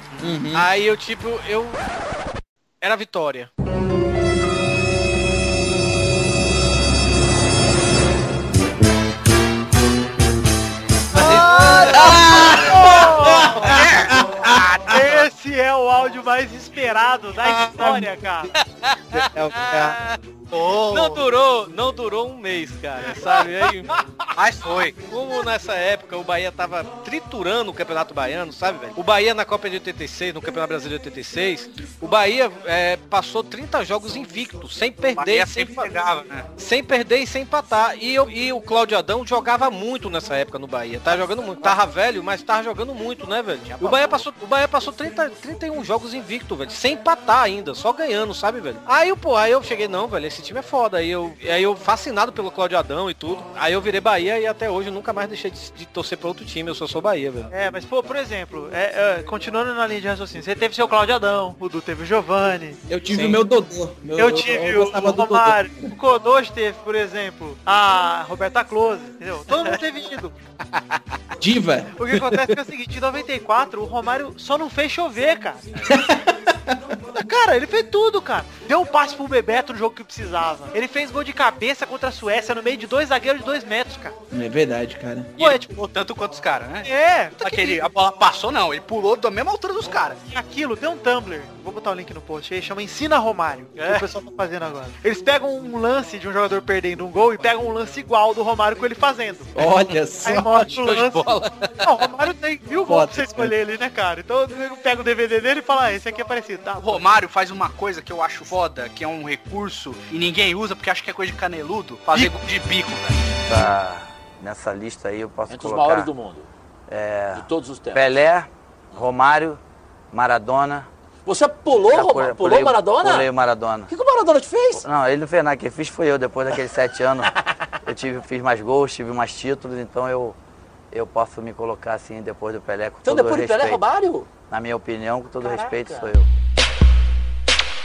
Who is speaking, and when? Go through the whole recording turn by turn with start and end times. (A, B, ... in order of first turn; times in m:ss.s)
0:00.2-0:00.7 A
0:00.5-0:01.8 B
0:02.8-0:03.5 B
0:11.2-0:13.8 C
0:11.2-0:14.6 A
0:11.2-0:15.3 D
0:11.2-0:12.2 B
0:14.9-0:18.5 C
0:18.6-0:20.2 B
0:19.1-0:19.8 A
0:19.6-0:19.9 D
0:20.5-0:21.2 D
0:20.9-0:24.0 B
0:24.4-0:25.0 D
0:25.0-0:35.9 B
0:35.1-0:36.5 D
0:36.6-0:57.5 B
0:41.1-0:41.8 D
0:43.6-0:44.2 D
0:57.5-1:02.8 C
1:02.9-1:05.9 A
1:04.2-1:10.4 C
1:11.4-1:12.5 A
1:12.0-1:15.6 C
1:15.9-1:16.9 A
1:17.1-1:24.1 C
1:24.3-1:25.4 A
1:25.4-1:30.2 D
1:26.8-1:27.8 C
1:30.2-1:39.5 C
1:33.8-1:34.1 D
1:39.6-1:40.7 A
1:40.2-1:41.3 C
1:40.7-1:41.7 B
1:41.8-1:47.0 C
1:42.9-1:43.5 A
1:46.8-1:53.4 D
1:53.5-1:56.1 E
1:55.5-1:56.5 F
1:56.9-1:59.6 E
1:57.3-1:58.0 F
2:00.1-2:00.9 E
2:01.2-2:03.3 F
2:01.8-2:03.9 E
2:03.9-2:04.8 F
2:04.8-2:07.3 E
2:07.8-2:10.4 E
2:10.9-2:13.8 E
2:13.0-2:14.3 F
2:14.5-2:16.3 E
2:15.4-2:16.1 F